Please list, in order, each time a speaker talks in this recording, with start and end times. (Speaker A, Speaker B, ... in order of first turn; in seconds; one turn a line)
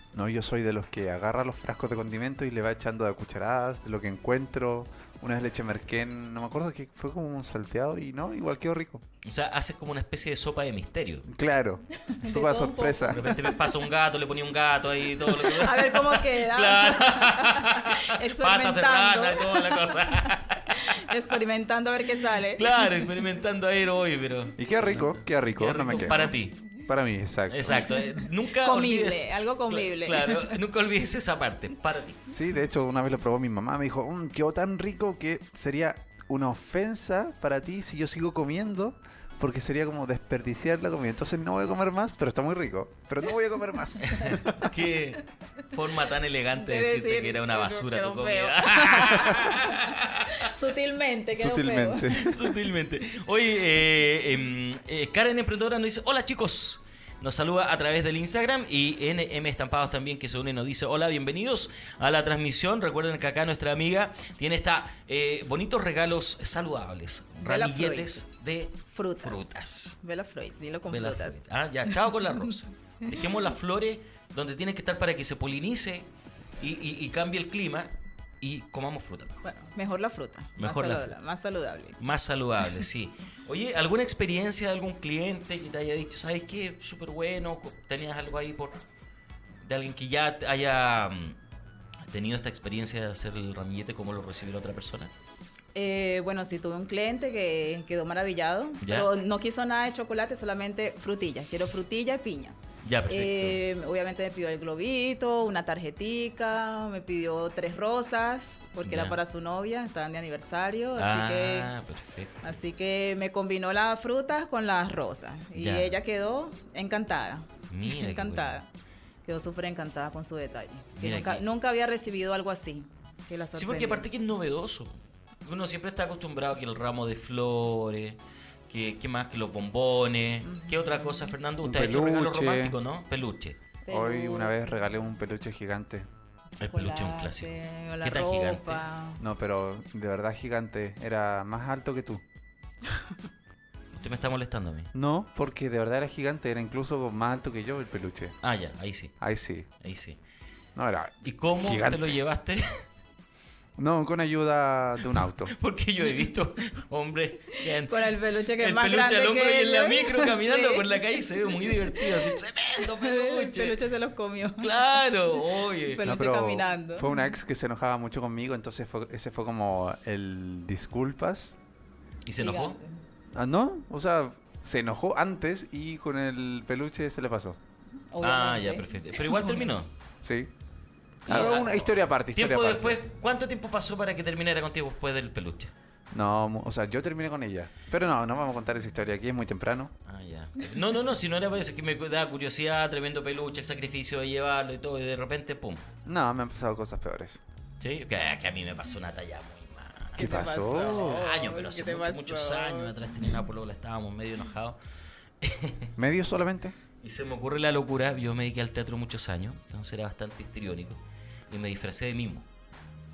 Speaker A: 0.1-9.0
Speaker B: 9.2-11.3
Speaker A: 11.3-13.3
Speaker C: 12.0-13.8
Speaker B: 13.1-21.0
Speaker C: 15.2-23.0
Speaker B: 22.6-26.6
Speaker A: 24.6-27.9
Speaker B: 27.5-32.3
Speaker C: 27.7-30.6
Speaker A: 32.3-44.6
Speaker C: 44.0-44.7
Speaker B: 44.0-50.4
Speaker C: 46.6-52.4
Speaker A: 51.3-52.4
Speaker B: 52.1-70.0
Speaker C: 67.4-68.2
Speaker C: 68.9-69.5
Speaker C: 70.0-72.0
Speaker B: 70.9-76.1
Speaker B: 76.6-79.4
Speaker C: 79.4-82.0
Speaker B: 80.6-81.1
Speaker B: 82.0-88.8
Speaker B: 89.7-91.4
Speaker B: 92.1-95.1
Speaker C: 95.8-102.6
Speaker B: 98.8-99.1
Speaker B: 102.8-103.6
Speaker C: 103.1-111.7
Speaker B: 108.9-109.2
Speaker B: 111.0-112.6
Speaker C: 112.4-118.7
Speaker B: 115.5-116.0
Speaker B: 117.7-118.5
Speaker C: 119.2-124.1
Speaker B: 121.0-121.4
Speaker B: 123.5-133.6
Speaker C: 130.4-131.3
Speaker A: 131.6-132.8
Speaker C: 133.8-134.8
Speaker A: 133.9-136.1
Speaker B: 136.6-138.8
Speaker C: 136.7-139.2
Speaker A: 139.2-142.2
Speaker B: 143.9-144.9
Speaker A: 144.9-148.3
Speaker B: 148.4-149.2
Speaker A: 149.2-149.7
Speaker B: 149.8-150.2
Speaker A: 150.8-152.2
Speaker B: 151.2-152.8
Speaker A: 153.8-155.5
Speaker B: 155.5-163.8
Speaker C: 157.6-165.0
Speaker B: 164.6-166.1
Speaker C: 165.8-167.3
Speaker A: 166.0-171.6
Speaker B: 172.3-172.8
Speaker C: 172.4-173.0
Speaker A: 173.3-177.6
Speaker C: 178.1-179.7
Speaker B: 178.2-179.9
Speaker A: 180.2-180.5
Speaker A: 181.3-183.0
Speaker B: 181.3-185.7
Speaker A: 186.1-189.9
Speaker B: 190.1-195.8
Speaker A: 196.1-197.4
Speaker B: 197.8-204.8
Speaker A: 200.2-201.2
Speaker C: 200.2-202.9
Speaker B: 205.4-205.9
Speaker A: 206.0-206.8
Speaker B: 207.0-211.0
Speaker B: 211.5-212.5